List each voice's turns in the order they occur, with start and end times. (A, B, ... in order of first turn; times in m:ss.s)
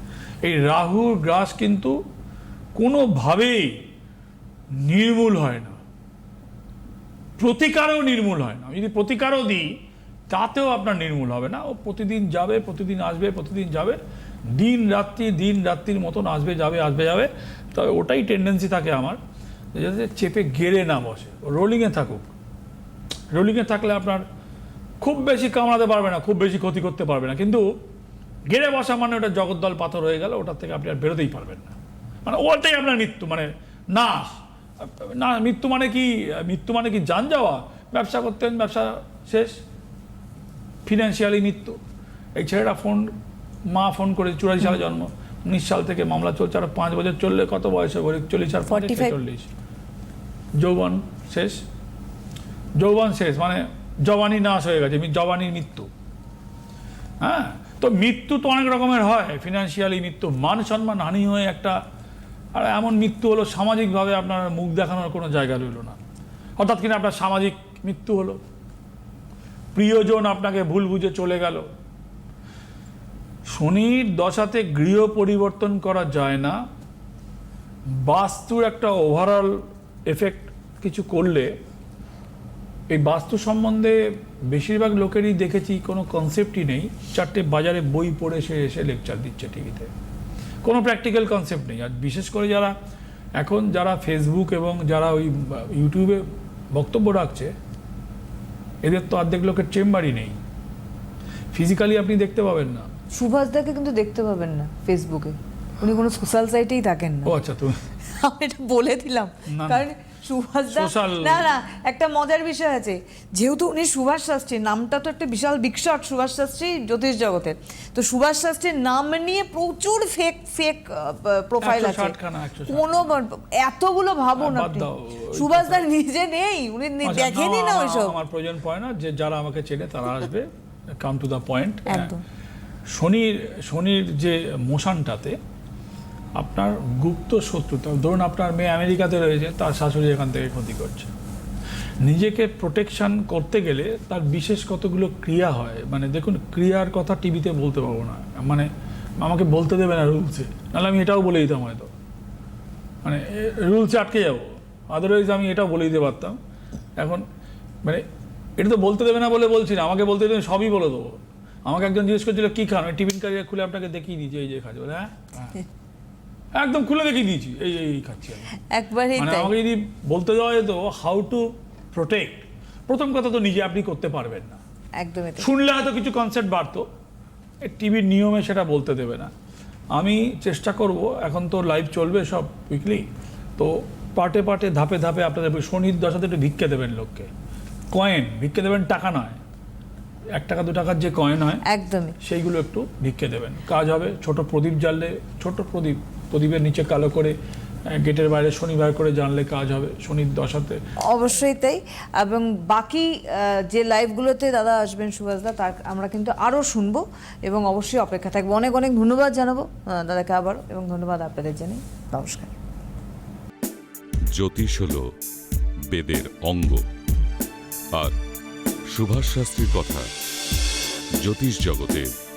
0:00.4-0:02.0 A
0:02.8-0:03.8 A
0:04.7-0:05.8 A
0:07.4-0:09.7 A
0:10.3-0:14.0 A
0:14.5-0:19.2 A
0:19.8-0:22.3 A
0:23.3-0:24.2 A
0:25.0-0:27.8 A
0:28.5-0:31.7 A
0:32.2-0:39.6 A
0:40.9-0:41.8 A
0:42.4-0:43.1 A
0:43.7-0:49.5 A
0:48.7-0:49.2 B
0:50.6-0:51.6 A
0:52.8-0:55.9 A
0:57.2-1:01.8 A
1:02.5-1:06.0 A
1:06.6-1:08.4 A
1:09.7-1:11.7 A
1:13.5-1:16.6 A
1:17.9-1:21.5 A
1:22.9-1:24.0 A
1:24.5-1:29.9 A
1:30.6-1:32.8 A
1:33.4-1:37.5 A
1:38.8-1:40.4 A
1:41.5-1:42.9 A
1:43.1-1:47.4 B
1:47.2-1:47.8 A
1:48.0-2:02.2 B
1:49.5-1:49.9 A
1:50.7-1:51.5 A
2:01.6-2:03.2 A
2:02.7-2:08.2 B
2:04.4-2:05.8 A
2:07.0-2:12.2 A
2:11.9-2:12.2 B
2:12.9-2:15.4 A
2:16.4-2:21.1 A
2:22.0-2:28.7 A
2:29.2-2:31.9 A
2:33.0-2:36.4 A
2:37.0-2:37.2 A
2:38.6-2:45.6 A
2:46.5-2:48.5 A
2:48.7-2:49.5 B
2:49.2-2:54.6 A
2:55.0-2:55.5 B
2:55.4-2:56.9 A
2:57.6-2:59.3 A
2:59.9-3:07.3 A
3:07.9-3:09.4 A
3:10.3-3:11.6 A
3:11.6-3:12.2 B
3:12.2-3:17.4 A
3:17.9-3:20.8 A
3:21.0-3:32.6 B
3:34.3-3:35.0 C
3:35.9-3:36.8 C
3:38.9-3:40.1 C
3:41.2-3:42.1 C